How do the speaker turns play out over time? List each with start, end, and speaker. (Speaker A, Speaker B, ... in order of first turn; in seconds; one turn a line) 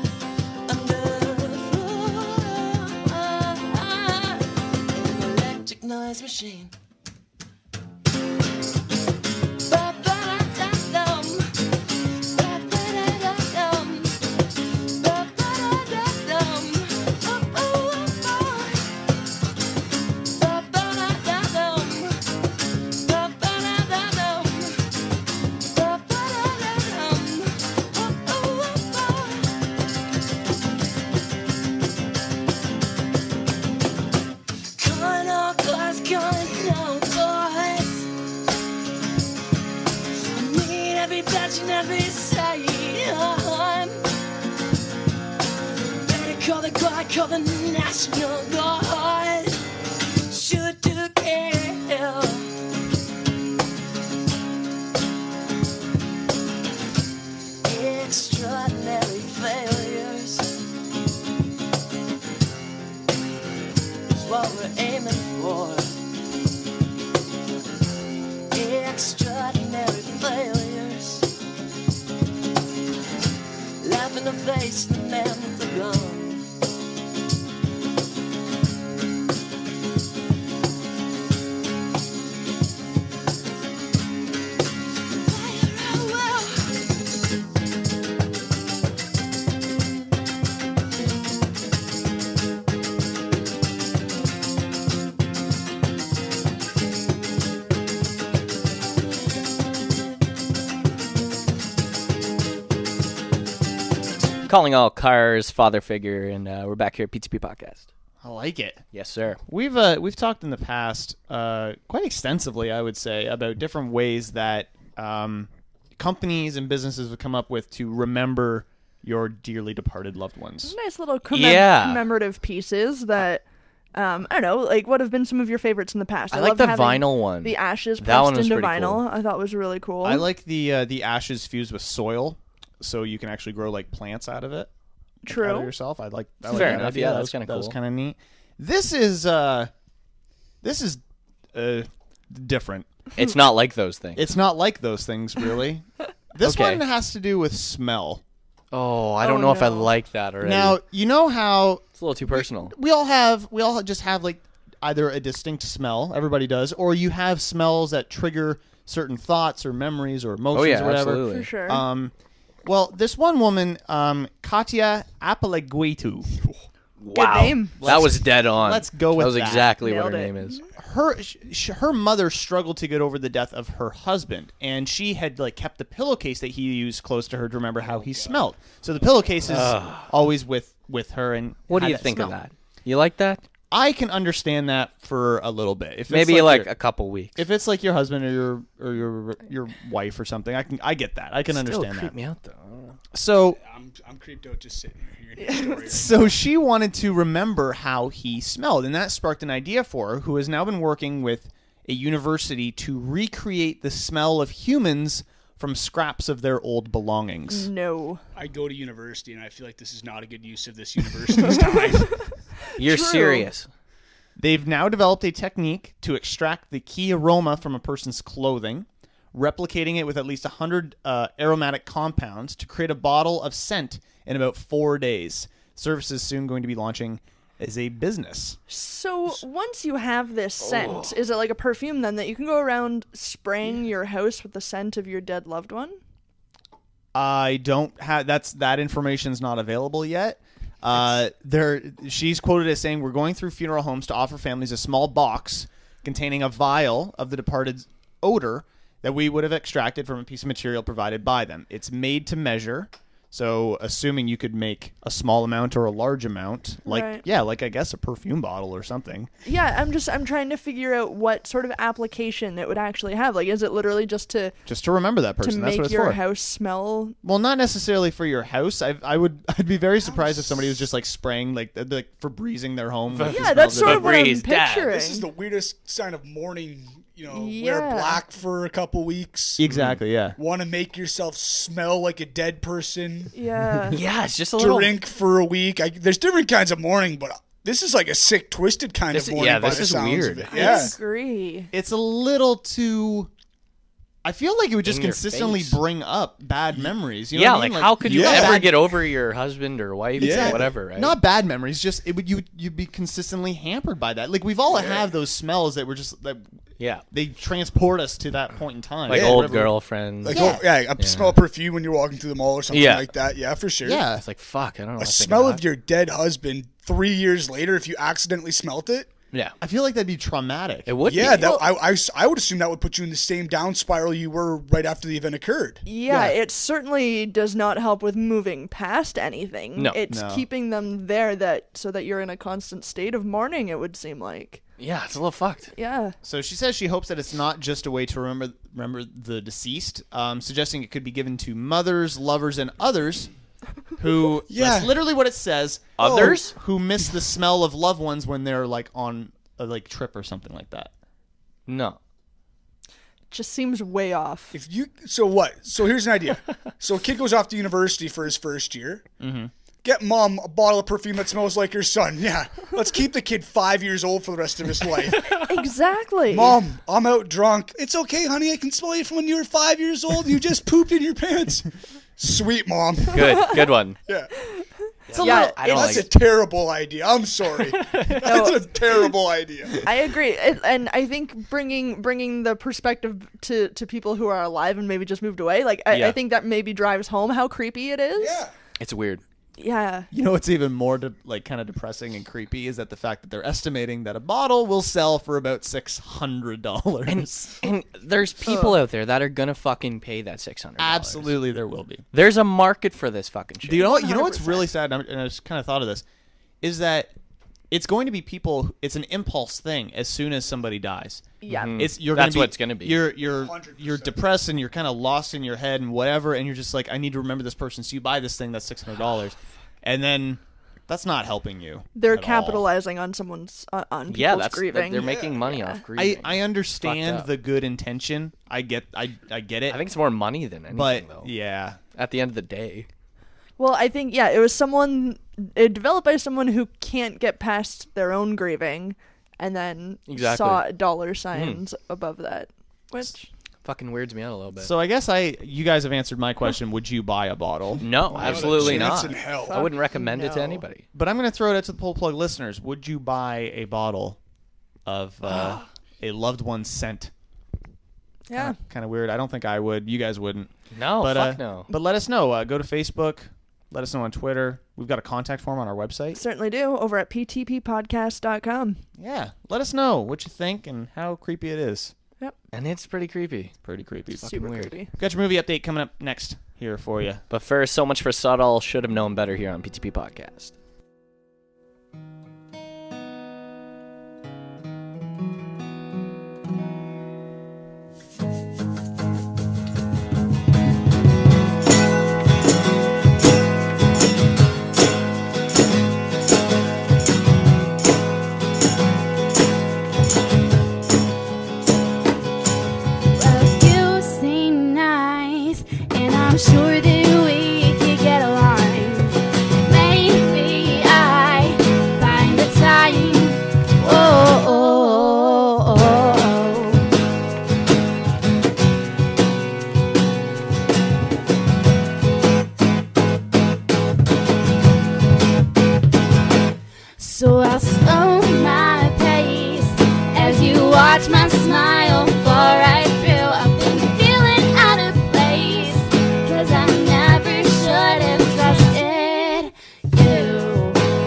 Speaker A: 0.7-6.7
Speaker A: 9.7-11.5
Speaker A: 12.3-14.2
Speaker A: 15.0-18.8
Speaker A: 20.3-22.2
Speaker A: 23.0-24.8
Speaker A: 25.7-29.5
Speaker A: 34.8-38.1
Speaker A: 40.3-44.0
Speaker A: 46.0-49.6
Speaker A: 50.3-52.5
Speaker A: 57.6-60.5
Speaker A: 64.1-65.9
Speaker A: 68.5-71.3
Speaker A: 73.8-76.4
Speaker A: 85.2-86.7
Speaker B: 104.5-107.9
Speaker C: 108.2-108.8
Speaker B: 108.9-109.4
Speaker C: 109.5-120.7
Speaker D: 120.6-123.4
Speaker B: 121.3-122.0
Speaker D: 123.9-130.3
Speaker B: 126.3-129.0
Speaker C: 130.0-134.7
Speaker D: 135.2-135.7
Speaker C: 135.2-139.7
Speaker B: 136.4-137.8
Speaker C: 140.6-141.0
Speaker C: 141.5-142.9
Speaker B: 143.2-144.2
Speaker C: 144.2-148.2
Speaker B: 146.4-146.8
Speaker B: 148.7-150.8
Speaker D: 149.2-149.9
Speaker C: 150.4-162.1
Speaker B: 151.9-152.7
Speaker B: 160.5-161.5
Speaker D: 161.2-161.8
Speaker C: 162.6-166.3
Speaker B: 167.0-170.6
Speaker D: 167.1-167.8
Speaker C: 167.8-169.8
Speaker D: 169.8-170.6
Speaker C: 170.8-182.4
Speaker E: 177.9-178.4
Speaker B: 179.4-180.1
Speaker B: 181.7-183.4
Speaker C: 183.7-186.7
Speaker B: 186.1-187.4
Speaker C: 187.3-192.1
Speaker B: 191.5-193.0
Speaker C: 193.1-193.6
Speaker E: 193.5-196.3
Speaker D: 195.4-195.8
Speaker C: 195.9-207.7
Speaker D: 207.5-208.2
Speaker E: 208.3-212.2
Speaker D: 212.8-213.5
Speaker B: 212.8-213.7
Speaker C: 214.4-228.6
Speaker D: 228.7-236.0
Speaker B: 230.7-231.1
Speaker C: 237.1-259.3
Speaker D: 256.8-257.2
Speaker D: 259.4-264.5
Speaker C: 264.6-266.2
Speaker D: 265.4-267.2
Speaker C: 267.2-274.2
Speaker E: 270.0-270.7
Speaker B: 273.1-274.9
Speaker D: 273.3-275.2
Speaker E: 274.9-279.7
Speaker D: 277.3-278.2
Speaker C: 279.6-280.4
Speaker B: 279.7-280.0
Speaker E: 280.4-283.3
Speaker D: 283.3-284.0
Speaker B: 283.9-285.0
Speaker E: 284.6-290.9
Speaker B: 289.1-290.9
Speaker D: 290.5-291.7
Speaker C: 291.7-293.3
Speaker C: 294.2-298.7
Speaker B: 294.8-295.8
Speaker B: 297.3-301.1
Speaker E: 298.0-298.8
Speaker E: 300.1-300.8
Speaker C: 300.2-306.4
Speaker E: 304.7-305.0
Speaker B: 306.8-307.0
Speaker C: 307.1-309.7
Speaker B: 309.1-311.4
Speaker E: 309.1-309.7
Speaker E: 310.2-314.0
Speaker C: 310.2-310.6
Speaker B: 312.7-313.1
Speaker C: 313.8-314.2
Speaker B: 314.1-315.6
Speaker E: 315.0-319.1
Speaker C: 319.6-320.9
Speaker B: 320.9-321.6
Speaker E: 321.1-325.8
Speaker D: 321.1-321.6
Speaker D: 325.9-334.6
Speaker C: 326.1-326.3
Speaker B: 329.7-330.0
Speaker C: 330.1-330.4
Speaker B: 334.8-335.7
Speaker D: 335.7-336.1
Speaker C: 336.2-343.3
Speaker C: 344.0-350.9
Speaker E: 344.5-344.9
Speaker B: 346.0-346.5
Speaker E: 346.0-346.4
Speaker B: 351.7-352.0
Speaker D: 353.3-354.5
Speaker E: 354.5-359.0
Speaker C: 359.2-359.5
Speaker E: 359.8-365.3
Speaker D: 365.4-366.6
Speaker E: 366.3-371.6
Speaker E: 372.2-374.3
Speaker B: 373.1-374.0
Speaker B: 375.1-376.1
Speaker D: 375.1-376.0
Speaker E: 375.2-379.9
Speaker B: 377.8-378.5
Speaker D: 378.2-378.6
Speaker D: 379.8-388.4
Speaker B: 385.9-386.2
Speaker E: 388.1-388.5
Speaker B: 388.8-389.2
Speaker D: 389.6-390.1
Speaker C: 390.1-397.6
Speaker B: 397.1-401.4
Speaker D: 398.4-398.7
Speaker C: 400.8-402.1
Speaker B: 402.1-403.9
Speaker C: 403.6-406.0
Speaker D: 403.8-404.7
Speaker C: 406.6-407.1
Speaker C: 407.7-422.6
Speaker D: 411.4-411.9
Speaker B: 411.5-413.1
Speaker E: 413.2-414.3
Speaker D: 421.9-425.8
Speaker B: 424.1-427.3
Speaker E: 425.0-425.3
Speaker C: 425.9-429.8
Speaker B: 429.7-431.3
Speaker C: 430.7-431.8
Speaker B: 431.9-432.9
Speaker D: 433.6-443.3
Speaker B: 440.1-440.6
Speaker B: 441.3-441.6
Speaker B: 443.6-444.7
Speaker C: 444.6-448.9
Speaker B: 447.8-450.9
Speaker E: 448.1-449.7
Speaker D: 449.1-450.4
Speaker C: 450.9-454.2
Speaker C: 454.9-457.1
Speaker D: 458.3-458.6
Speaker C: 458.3-466.2
Speaker B: 460.7-461.7
Speaker D: 466.1-468.8
Speaker C: 469.0-471.9
Speaker B: 472.5-473.5
Speaker C: 473.6-477.2
Speaker B: 474.2-474.7
Speaker D: 474.2-474.9
Speaker B: 477.3-480.5
Speaker F: 503.1-516.9
Speaker F: 527.0-540.8